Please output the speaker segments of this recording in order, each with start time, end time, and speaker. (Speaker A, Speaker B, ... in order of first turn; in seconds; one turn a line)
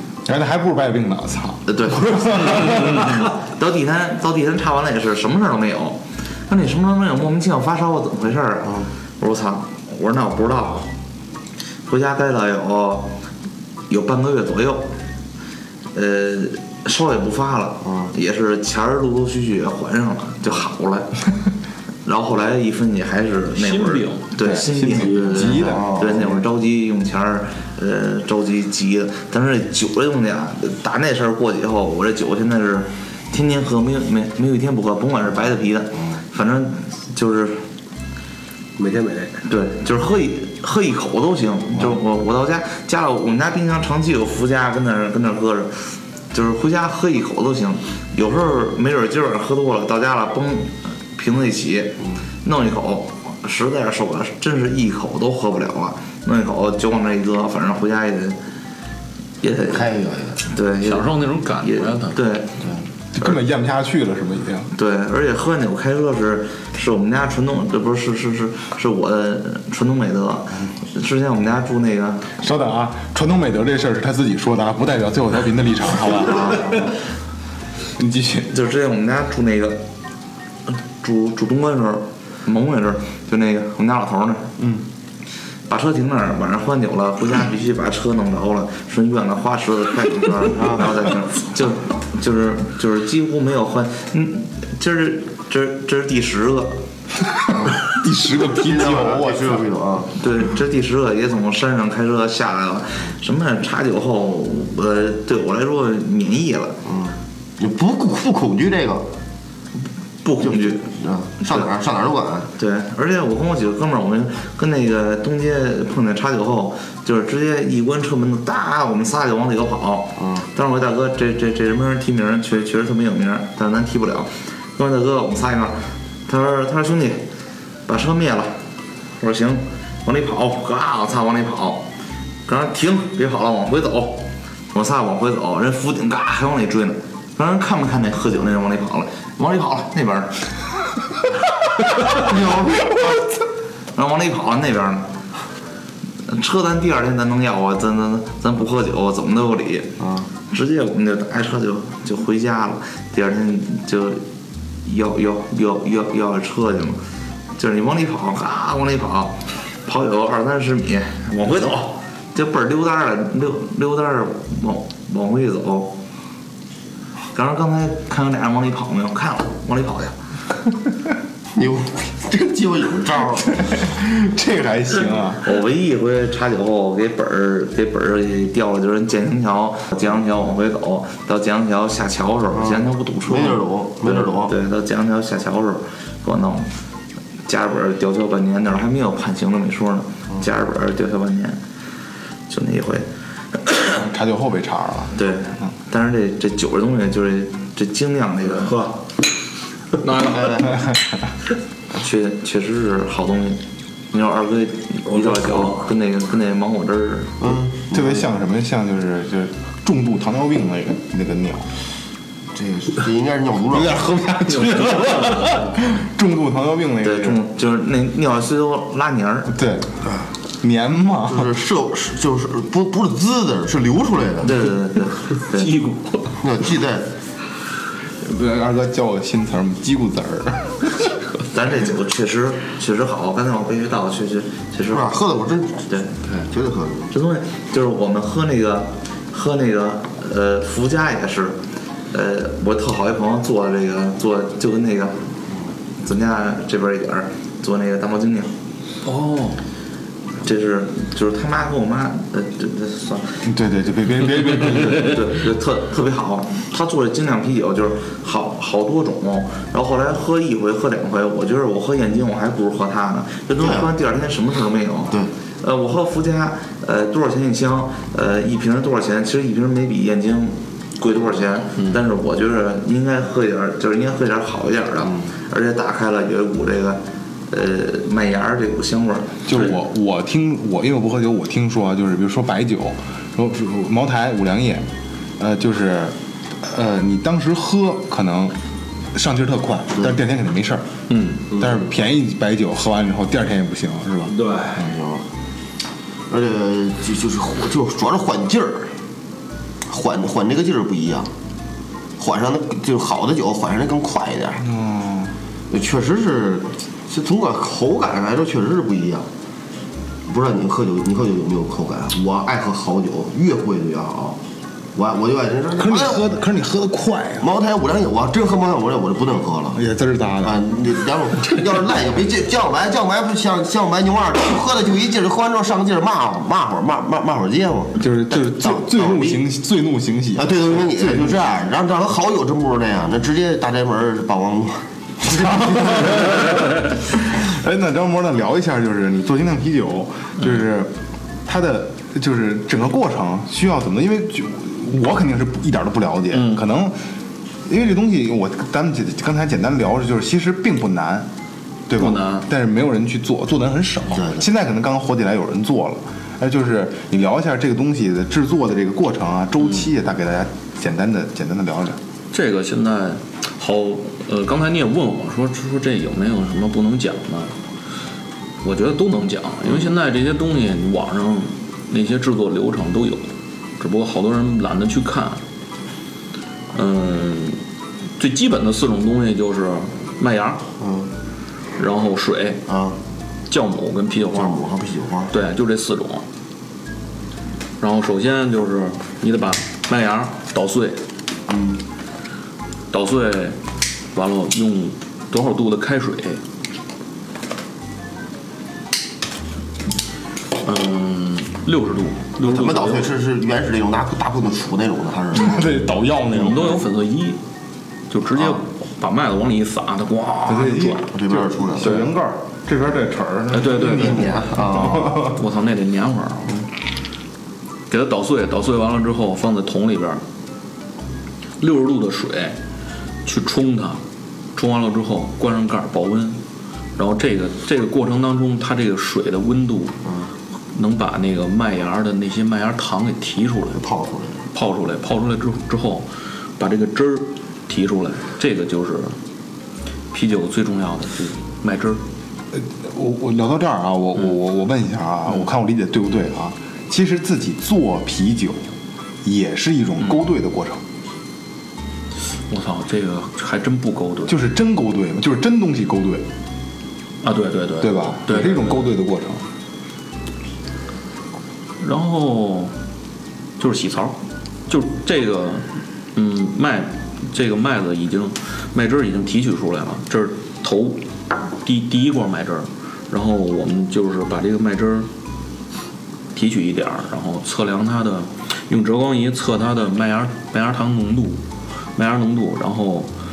Speaker A: 0.3-3.0
Speaker B: 1.7-10.9
Speaker B: 11.9-13.1
Speaker B: 13.9-14.9
Speaker B: 15.9-21.2
Speaker C: 17.9-18.1
Speaker B: 22.1-37.6
Speaker D: 23.6-24.3
Speaker A: 24.4-26.0
Speaker C: 25.5-26.4
Speaker E: 38.8-39.4
Speaker B: 39.5-45.8
Speaker B: 46.3-58.4
Speaker B: 59.4-59.9
Speaker C: 59.6-60.4
Speaker B: 60.4-62.7
Speaker D: 60.8-62.2
Speaker A: 63.1-64.7
Speaker B: 64.7-72.3
Speaker A: 72.4-76.9
Speaker A: 78.0-78.5
Speaker B: 78.5-79.8
Speaker B: 80.7-84.5
Speaker A: 84.6-84.8
Speaker B: 85.7-96.8
Speaker C: 90.6-90.9
Speaker A: 97.9-99.7
Speaker C: 98.5-100.2
Speaker B: 100.2-106.8
Speaker C: 106.8-109.1
Speaker B: 110.2-110.8
Speaker C: 110.4-112.5
Speaker B: 112.6-127.2
Speaker C: 120.2-120.5
Speaker B: 127.9-128.6
Speaker B: 129.2-131.9
Speaker B: 132.5-140.5
Speaker B: 141.8-143.2
Speaker B: 143.9-145.1
Speaker B: 146.3-149.9
Speaker C: 150.0-150.3
Speaker B: 150.5-154.2
Speaker B: 154.8-157.0
Speaker B: 157.6-165.9
Speaker B: 167.3-170.2
Speaker C: 171.6-173.7
Speaker A: 173.6-175.4
Speaker B: 175.4-186.7
Speaker C: 182.5-184.5
Speaker B: 187.5-191.6
Speaker B: 192.5-194.0
Speaker A: 193.9-195.1
Speaker B: 195.2-198.8
Speaker E: 198.6-198.9
Speaker D: 200.0-200.7
Speaker C: 200.3-200.7
Speaker B: 201.9-207.6
Speaker E: 205.1-205.7
Speaker C: 207.4-208.2
Speaker A: 207.9-211.7
Speaker C: 212.6-214.1
Speaker A: 213.7-217.4
Speaker B: 217.0-219.5
Speaker A: 219.5-219.9
Speaker A: 220.6-221.5
Speaker C: 221.3-224.6
Speaker B: 224.4-225.8
Speaker D: 225.5-226.4
Speaker C: 226.4-227.1
Speaker A: 228.2-231.1
Speaker B: 231.5-235.2
Speaker C: 234.9-235.9
Speaker C: 236.5-237.1
Speaker B: 237.1-241.6
Speaker B: 242.1-245.2
Speaker B: 246.0-248.5
Speaker D: 249.0-249.6
Speaker B: 250.4-253.4
Speaker A: 253.4-255.3
Speaker B: 254.9-279.8
Speaker C: 263.6-263.9
Speaker A: 279.5-284.9
Speaker A: 285.4-288.6
Speaker A: 289.1-290.9
Speaker D: 291.1-291.5
Speaker A: 291.5-294.4
Speaker E: 294.3-294.8
Speaker C: 294.8-295.2
Speaker C: 296.3-298.9
Speaker C: 299.9-301.3
Speaker C: 302.2-304.7
Speaker A: 304.6-305.3
Speaker C: 305.7-309.3
Speaker C: 310.3-314.4
Speaker C: 314.9-316.2
Speaker A: 315.8-317.5
Speaker C: 317.4-319.8
Speaker A: 319.7-320.6
Speaker C: 320.4-329.4
Speaker A: 328.0-331.5
Speaker C: 330.4-336.4
Speaker A: 335.2-340.9
Speaker A: 341.5-347.0
Speaker D: 346.3-346.6
Speaker A: 347.7-351.3
Speaker A: 351.9-362.0
Speaker D: 352.0-352.5
Speaker C: 354.1-354.4
Speaker D: 362.3-367.6
Speaker D: 368.6-375.4
Speaker D: 376.7-377.6
Speaker D: 378.2-380.6
Speaker C: 380.8-381.1
Speaker D: 381.8-382.6
Speaker C: 382.7-383.0
Speaker D: 383.5-384.6
Speaker C: 384.4-385.3
Speaker D: 385.3-386.2
Speaker D: 387.8-391.0
Speaker C: 391.5-391.8
Speaker D: 392.9-393.6
Speaker D: 394.1-396.4
Speaker D: 400.6-403.1
Speaker C: 402.4-405.9
Speaker A: 405.3-406.9
Speaker D: 406.3-407.4
Speaker D: 408.1-411.1
Speaker A: 410.5-415.4
Speaker C: 411.1-412.0
Speaker D: 411.8-412.1
Speaker D: 413.5-414.4
Speaker C: 413.7-415.3
Speaker D: 415.2-416.7
Speaker D: 417.9-420.2
Speaker D: 421.6-422.6
Speaker D: 423.2-424.0
Speaker D: 424.6-426.4
Speaker D: 427.0-430.0
Speaker C: 430.0-430.3
Speaker D: 430.7-433.8
Speaker C: 433.8-434.4
Speaker D: 434.5-439.2
Speaker D: 440.1-442.0
Speaker A: 442.5-448.7
Speaker A: 449.2-450.8
Speaker D: 452.2-454.4
Speaker A: 454.3-456.3
Speaker D: 457.2-458.9
Speaker A: 457.8-459.4
Speaker D: 461.8-462.7
Speaker D: 463.6-471.0
Speaker D: 471.6-475.1
Speaker D: 476.3-481.4
Speaker D: 481.9-483.1